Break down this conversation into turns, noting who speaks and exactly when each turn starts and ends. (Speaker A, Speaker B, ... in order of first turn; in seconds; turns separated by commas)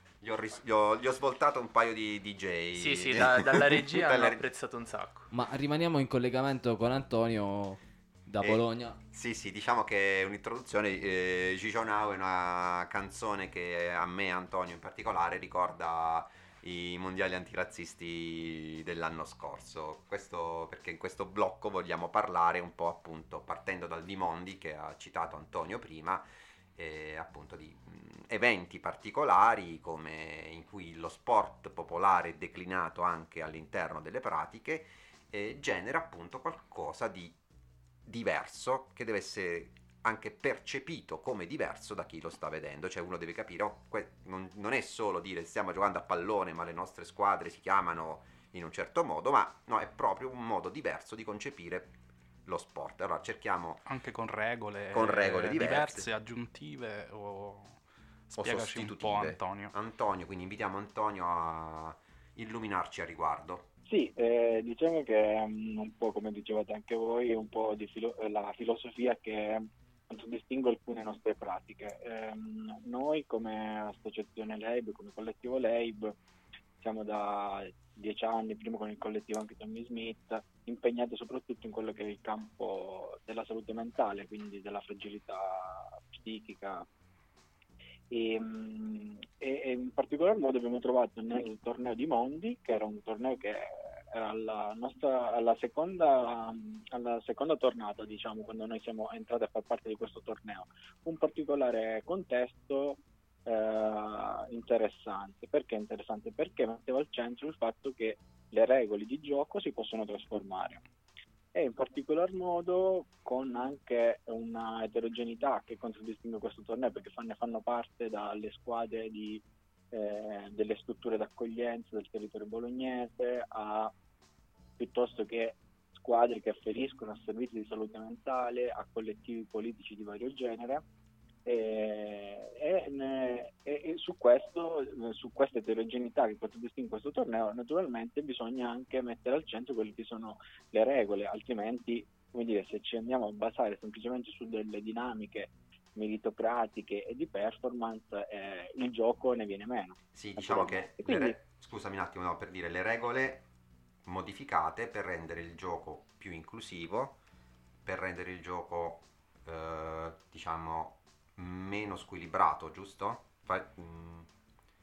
Speaker A: 0.2-4.4, Speaker B: 2.8-5.3, Speaker C: 5.3-9.0, Speaker A: 8.4-37.4, Speaker A: 38.0-51.9, Speaker A: 52.5-53.8, Speaker D: 53.9-57.8, Speaker A: 54.9-56.1, Speaker D: 58.3-59.7, Speaker A: 58.4-63.7, Speaker E: 63.9-76.2, Speaker E: 76.8-86.9, Speaker E: 88.1-110.8, Speaker E: 111.5-123.9, Speaker E: 124.8-130.8, Speaker E: 131.5-151.4, Speaker A: 150.1-153.5, Speaker A: 154.1-157.2, Speaker A: 157.8-164.3